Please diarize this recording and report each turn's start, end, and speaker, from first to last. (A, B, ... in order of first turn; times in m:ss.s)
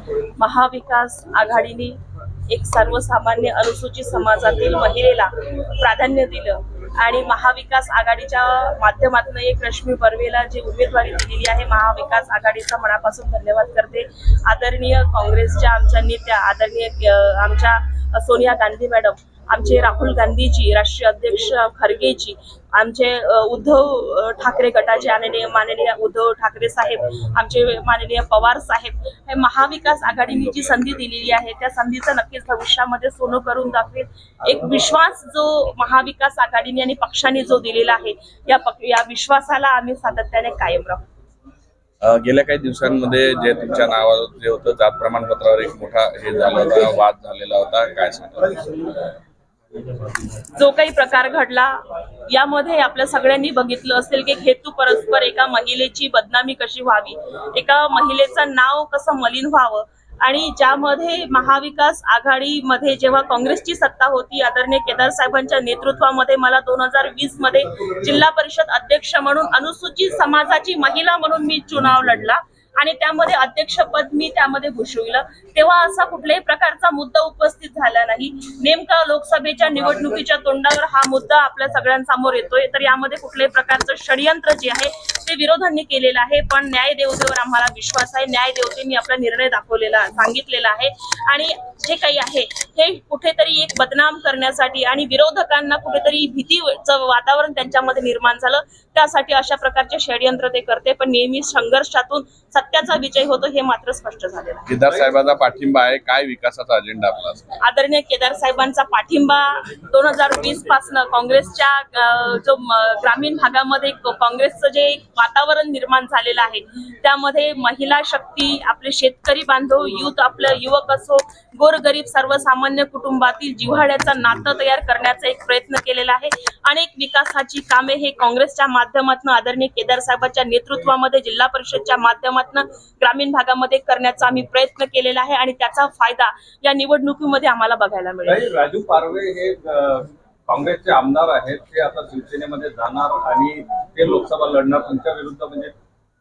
0:00.4-0:02.0 A
0:02.5-0:41.0 A
0:42.0-0:48.6 B
0:50.6-0:51.8 A
0:52.3-1:44.7 A
1:44.7-1:47.4 B
1:44.8-1:45.1 C
1:47.6-2:18.4 A
2:18.3-2:25.7 C